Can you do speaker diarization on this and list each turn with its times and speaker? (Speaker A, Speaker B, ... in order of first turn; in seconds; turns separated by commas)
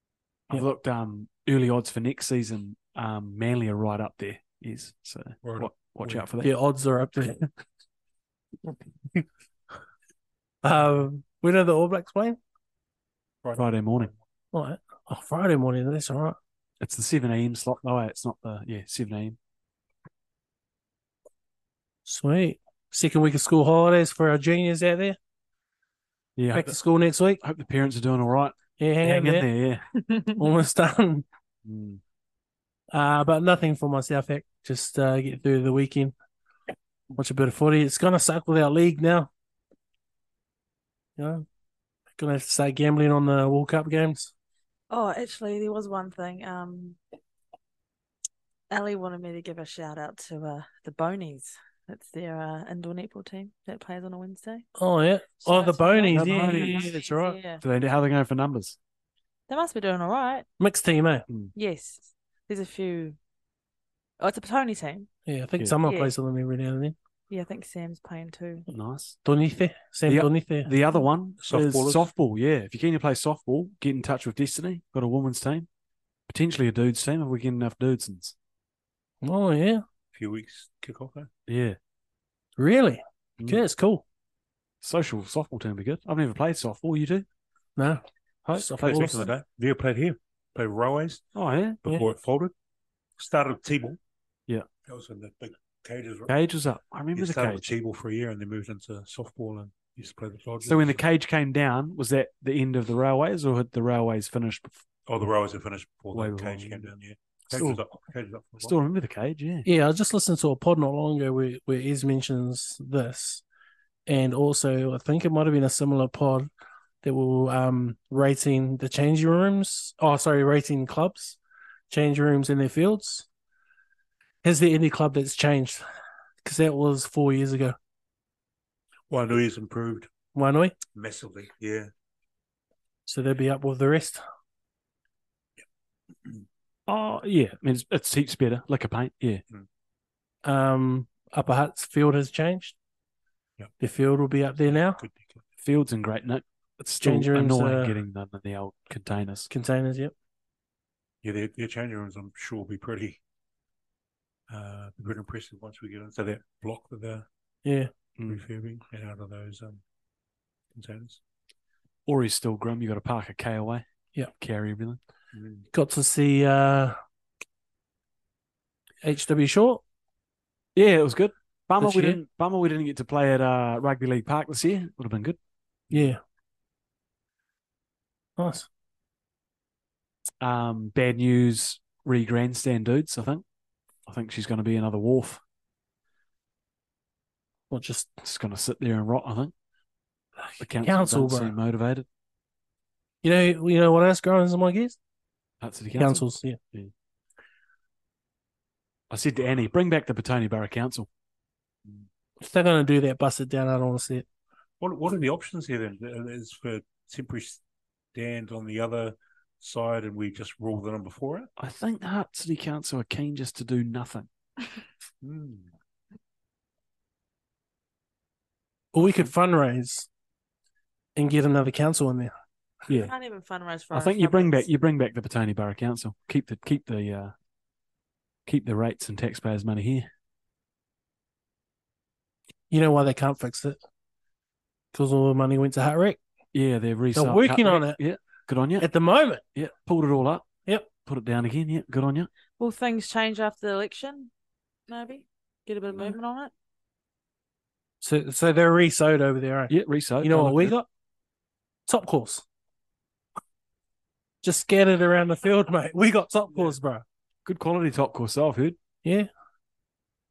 Speaker A: 0.5-6.5, Speaker B: 5.4-6.2, Speaker C: 6.4-7.5, Speaker C: 10.6-12.4, Speaker B: 13.4-14.2, Speaker A: 13.6-14.1, Speaker C: 14.5-16.4, Speaker A: 16.8-19.4, Speaker C: 22.1-25.2, Speaker A: 26.4-26.8, Speaker C: 26.5-27.4, Speaker A: 27.4-29.9, Speaker C: 28.8-29.5, Speaker C: 30.4-31.2, Speaker A: 31.6-32.0, Speaker C: 32.9-36.1, Speaker C: 37.1-39.3, Speaker C: 41.2-41.4, Speaker C: 42.2-44.3, Speaker D: 44.9-47.0, Speaker D: 48.7-54.7, Speaker C: 54.8-57.4, Speaker D: 55.4-57.6, Speaker A: 56.1-56.9, Speaker A: 57.6-58.8, Speaker D: 59.5-60.5, Speaker C: 60.6-61.2, Speaker A: 61.3-61.5, Speaker D: 61.5-63.2, Speaker D: 64.2-65.1, Speaker C: 65.2-66.9, Speaker D: 65.8-66.1, Speaker D: 67.3-68.7, Speaker A: 68.7-69.2, Speaker C: 69.2-70.7, Speaker A: 70.1-75.7, Speaker B: 71.4-72.1, Speaker A: 76.3-78.3, Speaker C: 79.2-79.8, Speaker B: 80.1-81.3, Speaker A: 81.5-81.8, Speaker C: 82.6-84.0, Speaker A: 84.8-87.2, Speaker C: 87.8-88.0, Speaker A: 88.4-89.2, Speaker C: 88.5-89.3, Speaker B: 88.8-91.2, Speaker A: 91.3-91.8, Speaker B: 91.8-92.5, Speaker B: 93.2-94.0, Speaker B: 94.8-96.3, Speaker A: 96.3-97.7, Speaker B: 97.1-101.0, Speaker A: 100.6-104.8, Speaker B: 105.1-108.7, Speaker A: 106.1-106.9, Speaker A: 107.5-107.8, Speaker A: 108.6-109.7, Speaker C: 109.7-113.4, Speaker C: 114.1-116.5, Speaker C: 117.0-121.4, Speaker C: 121.9-123.3, Speaker C: 124.4-125.8, Speaker C: 126.4-127.8, Speaker B: 129.1-130.1, Speaker C: 130.3-130.7, Speaker B: 130.9-131.9, Speaker C: 133.1-134.2, Speaker A: 136.9-139.4, Speaker C: 140.4-142.7, Speaker C: 143.8-145.0, Speaker B: 145.0-145.4, Speaker A: 145.6-149.5, Speaker C: 147.0-147.9, Speaker C: 149.5-150.1, Speaker B: 151.2-153.2, Speaker B: 154.5-157.2, Speaker C: 157.6-157.9, Speaker B: 158.3-159.8, Speaker B: 160.7-161.2, Speaker A: 162.1-163.8, Speaker A: 164.4-165.0, Speaker B: 165.3-165.7, Speaker C: 165.7-166.9, Speaker C: 169.0-169.8, Speaker A: 170.7-175.4, Speaker C: 171.8-172.2, Speaker C: 175.9-176.2, Speaker C: 178.4-178.7, Speaker A: 180.4-183.4, Speaker A: 184.1-185.4, Speaker C: 187.7-188.2, Speaker A: 188.2-189.5, Speaker C: 190.5-191.5, Speaker A: 190.6-192.1, Speaker C: 193.2-195.0, Speaker A: 195.6-196.9, Speaker C: 196.0-196.6, Speaker A: 199.1-201.1, Speaker C: 202.4-204.2, Speaker B: 204.8-207.6, Speaker B: 208.1-211.5, Speaker A: 211.6-214.3, Speaker B: 215.2-215.7, Speaker C: 218.9-220.1, Speaker A: 219.0-219.3, Speaker C: 221.2-222.3, Speaker A: 222.9-223.1, Speaker D: 222.9-224.7, Speaker A: 223.9-227.3, Speaker A: 228.4-230.1, Speaker C: 232.7-233.8, Speaker C: 234.9-236.2, Speaker A: 236.5-238.9, Speaker C: 237.1-238.0, Speaker C: 238.8-239.4, Speaker A: 239.5-240.5, Speaker A: 241.0-242.3, Speaker D: 242.6-244.3, Speaker D: 244.9-246.5, Speaker C: 248.0-250.9, Speaker A: 249.7-250.7, Speaker C: 251.9-252.4, Speaker C: 254.4-257.0, Speaker A: 257.4-258.8, Speaker C: 259.0-259.3